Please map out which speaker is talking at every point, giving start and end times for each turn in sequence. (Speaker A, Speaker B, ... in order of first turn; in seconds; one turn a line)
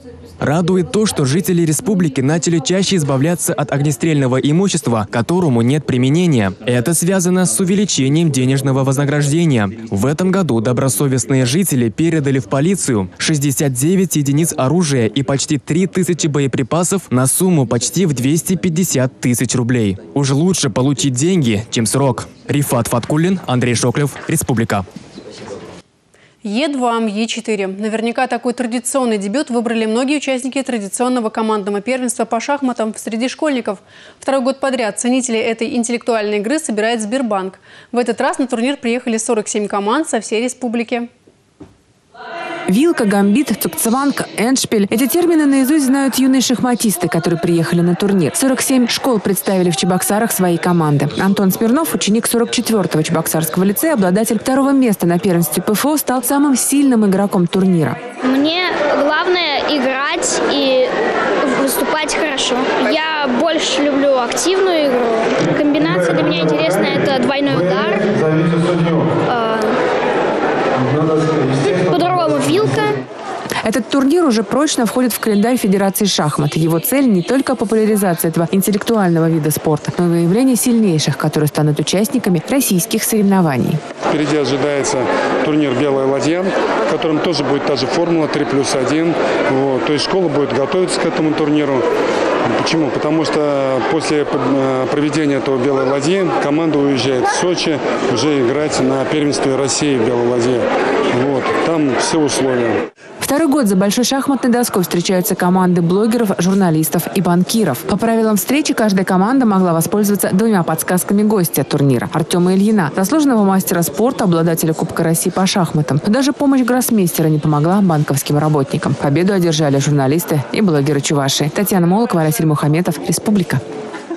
Speaker A: 0.4-24.8
Speaker B: 26.4-41.1
Speaker C: 42.7-58.0
Speaker D: 58.2-60.9
Speaker D: 61.4-69.8
Speaker D: 71.4-72.9
Speaker C: 73.6-83.8
Speaker E: 84.1-91.8
Speaker E: 92.6-102.8
Speaker C: 103.2-123.6